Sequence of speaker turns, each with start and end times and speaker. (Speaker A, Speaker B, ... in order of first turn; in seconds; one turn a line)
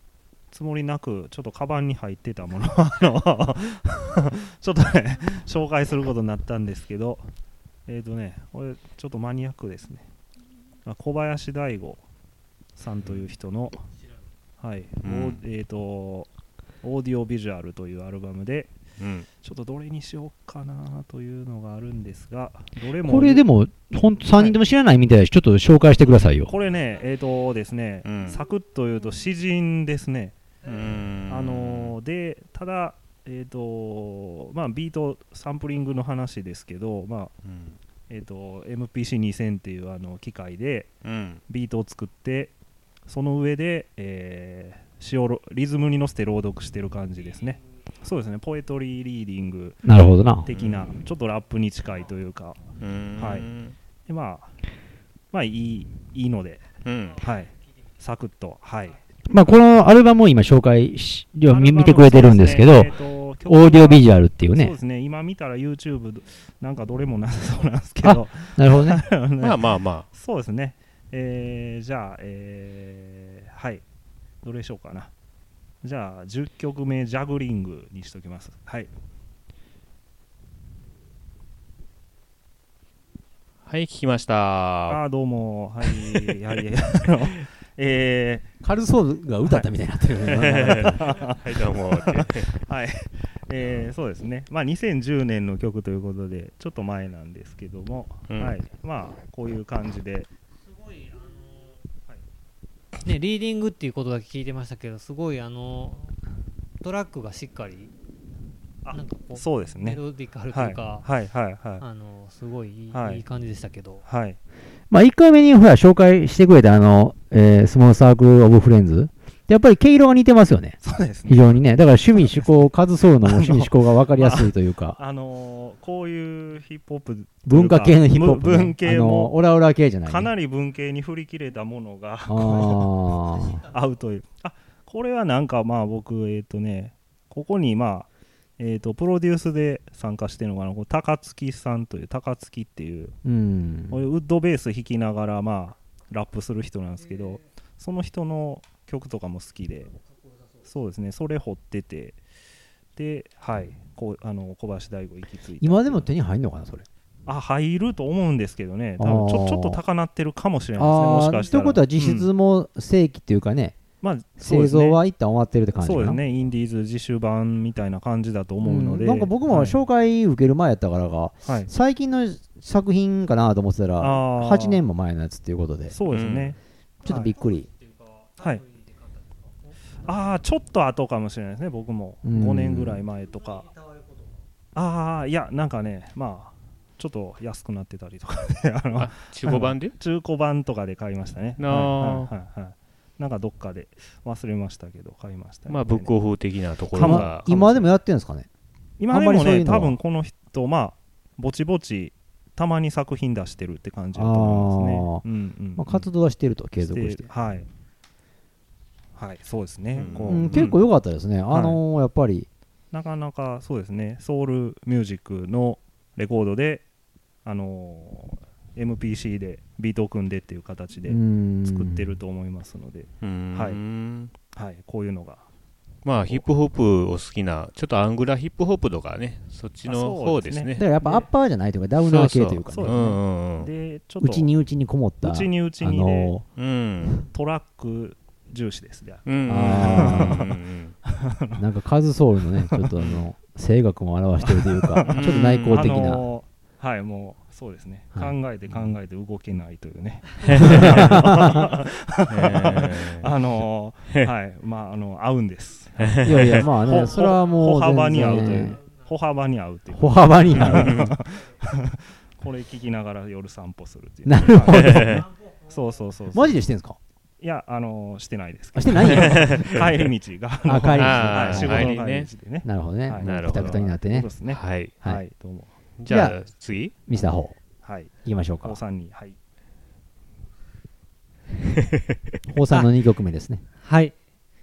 Speaker A: 0.5-7.2
Speaker A: 7.9-10.1
Speaker A: 10.8-12.0
Speaker A: 12.8-13.8
Speaker A: 14.6-16.3
Speaker B: 15.0-15.4
Speaker A: 16.8-18.8
Speaker B: 19.0-19.3
Speaker A: 19.4-23.4
Speaker C: 23.0-26.5
Speaker A: 26.5-30.4
Speaker B: 28.1-28.4
Speaker B: 30.6-31.9
Speaker A: 31.3-37.4
Speaker B: 37.4-37.8
Speaker A: 38.1-41.0
Speaker B: 41.0-41.4
Speaker A: 41.5-42.5
Speaker A: 43.1-49.8
Speaker C: 49.8-50.5
Speaker A: 50.5-52.6
Speaker B: 50.5-50.9
Speaker B: 52.8-53.8
Speaker A: 53.2-53.5
Speaker A: 54.1-54.5
Speaker A: 55.3-56.6
Speaker B: 56.9-57.2
Speaker A: 57.2-59.0
Speaker C: 59.3-62.9
Speaker A: 61.5-73.8
Speaker C: 63.5-64.8
Speaker C: 68.0-69.1
Speaker B: 69.4-70.1
Speaker A: 74.4-75.1
Speaker A: 75.8-78.9
Speaker B: 83.7-85.0
Speaker A: 84.9-88.5
Speaker B: 86.0-86.3
Speaker C: 88.6-91.1
Speaker B: 90.2-92.5
Speaker A: 90.2-100.3
Speaker B: 98.3-98.5
Speaker D: 100.9-101.4
Speaker D: 103.0-106.2
Speaker D: 106.8-107.9
Speaker A: 108.8-110.0
Speaker D: 108.9-111.0
Speaker A: 110.5-111.8
Speaker D: 111.8-114.0
Speaker A: 112.9-113.2
Speaker A: 114.1-114.4
Speaker C: 114.9-125.0
Speaker A: 120.8-121.6
Speaker A: 122.1-122.5
Speaker A: 123.2-129.3
Speaker C: 127.5-130.3
Speaker A: 130.1-132.9
Speaker C: 132.3-133.6
Speaker A: 133.5-143.2
Speaker C: 143.2-144.0
Speaker A: 143.9-149.9
Speaker A: 150.6-152.2
Speaker A: 152.9-156.1
Speaker C: 155.6-156.9
Speaker A: 157.3-162.3
Speaker C: 159.0-159.8
Speaker C: 160.8-163.8
Speaker A: 164.0-165.0
Speaker C: 164.4-166.2
Speaker A: 165.8-169.8
Speaker C: 168.6-176.0
Speaker A: 171.4-171.7
Speaker A: 174.0-174.8
Speaker A: 175.9-177.3
Speaker B: 176.1-176.6
Speaker C: 177.1-177.7
Speaker A: 178.4-178.7
Speaker A: 180.0-183.7
Speaker C: 182.2-183.0
Speaker A: 184.8-196.2
Speaker B: 189.0-190.0
Speaker B: 191.6-192.3
Speaker B: 195.7-197.5
Speaker A: 196.9-197.9
Speaker C: 197.0-198.5
Speaker A: 199.0-206.1
Speaker C: 199.1-200.0
Speaker C: 204.2-205.2
Speaker C: 205.8-207.3
Speaker A: 206.8-207.7
Speaker A: 209.2-210.8
Speaker B: 209.9-210.8
Speaker C: 210.3-212.5
Speaker A: 211.5-211.8
Speaker A: 212.9-216.8
Speaker A: 217.4-223.8
Speaker C: 221.1-222.2
Speaker B: 223.2-224.3
Speaker A: 224.5-225.5
Speaker B: 226.0-230.9
Speaker A: 229.8-231.3
Speaker C: 230.8-233.0
Speaker B: 232.0-233.7
Speaker A: 232.7-234.5
Speaker C: 234.2-236.4
Speaker A: 235.2-236.3
Speaker B: 236.6-237.2
Speaker A: 237.2-240.6
Speaker B: 239.3-240.9
Speaker C: 239.5-240.5
Speaker A: 241.2-241.6
Speaker C: 241.6-246.2
Speaker B: 243.0-243.2
Speaker A: 244.4-265.1
Speaker B: 245.1-246.2
Speaker C: 248.2-248.9
Speaker B: 250.4-251.2
Speaker C: 250.6-251.7
Speaker B: 252.3-253.3
Speaker B: 256.0-256.7
Speaker C: 256.2-258.8
Speaker C: 259.9-261.1
Speaker B: 260.6-261.1
Speaker C: 264.2-265.3
Speaker B: 264.7-265.3
Speaker A: 265.6-266.6
Speaker C: 266.3-267.0
Speaker A: 267.4-275.7
Speaker C: 268.8-269.9
Speaker B: 269.0-269.8
Speaker C: 270.6-272.0
Speaker B: 270.9-272.3
Speaker C: 272.6-274.3
Speaker B: 273.2-273.8
Speaker B: 274.5-274.9
Speaker B: 276.0-276.9
Speaker C: 276.1-276.4
Speaker C: 277.1-277.6
Speaker A: 277.8-279.4
Speaker C: 278.2-278.8
Speaker B: 281.7-282.2
Speaker C: 282.5-283.6
Speaker D: 283.8-284.1